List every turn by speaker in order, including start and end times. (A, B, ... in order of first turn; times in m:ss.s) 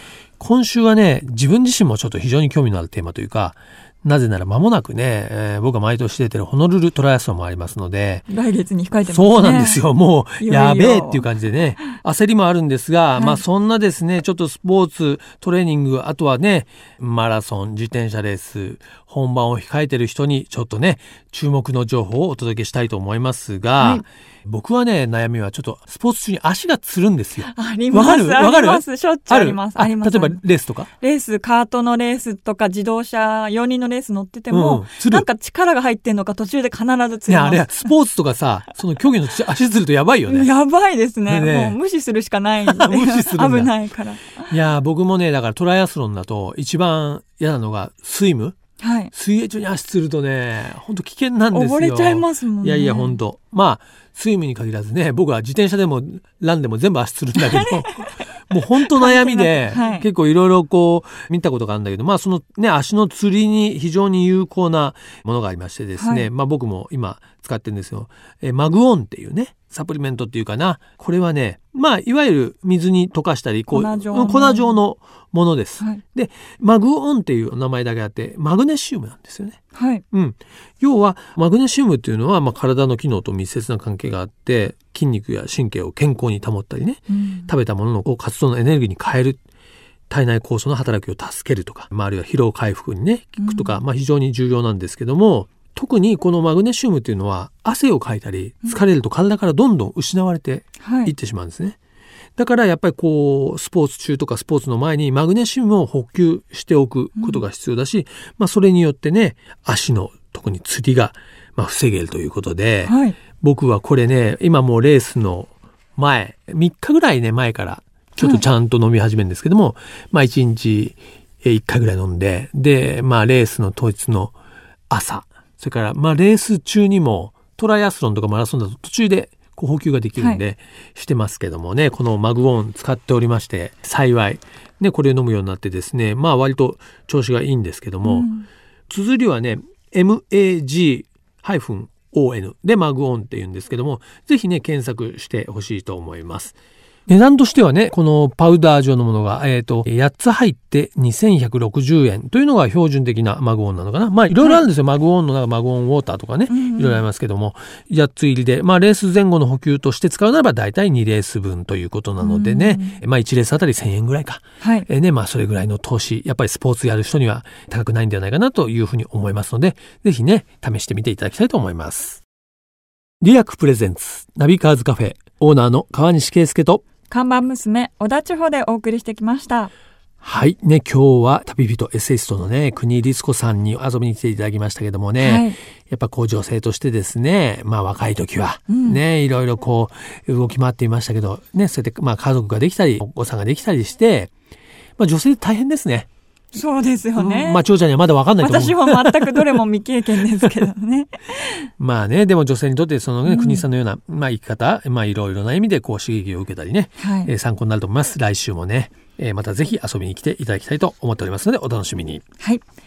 0:00.4-0:08.3 A
0:08.3-0:09.8 B
0:09.1-0:30.9 A
0:10.4-0:11.3 B
0:13.2-0:13.4 B
0:27.5-0:30.4 B
0:31.0-0:37.8 B
0:34.5-0:35.3 A
0:37.3-0:40.5 A
0:40.3-0:44.5 B
0:41.3-0:41.8 A
0:42.6-0:43.7 A
0:44.4-0:48.6 A
0:48.8-0:49.1 B
0:49.1-1:19.6 A
0:51.5-0:53.2 B
0:57.4-0:58.2 B
0:58.9-1:00.1 B
1:06.0-1:06.3 B
1:13.7-1:14.8 B
1:19.7-1:20.0 B
1:20.1-1:29.4 A
1:27.1-1:27.5 B
1:30.1-1:41.8 A
1:33.4-1:33.8 B
1:40.8-1:41.1 B
1:42.4-2:04.4 A
1:47.2-1:47.4 B
1:52.8-1:53.2 B
2:04.9-2:18.3 A
2:18.0-2:18.5 B
2:18.9-2:26.6 A
2:27.1-2:52.2 A
2:36.5-2:37.0 B
2:42.2-2:43.0 B
2:44.6-2:44.9 B
2:53.2-2:56.8 A
2:57.1-2:59.7 B
3:00.2-3:14.3 A
3:05.2-3:05.6 B
3:08.7-3:09.0 B
3:15.0-3:16.1 A
3:16.5-3:17.6 B
3:17.2-3:19.6 A
3:18.4-3:21.7 B
3:21.8-3:32.2 A
3:23.2-3:23.6 B
3:27.0-3:27.3 B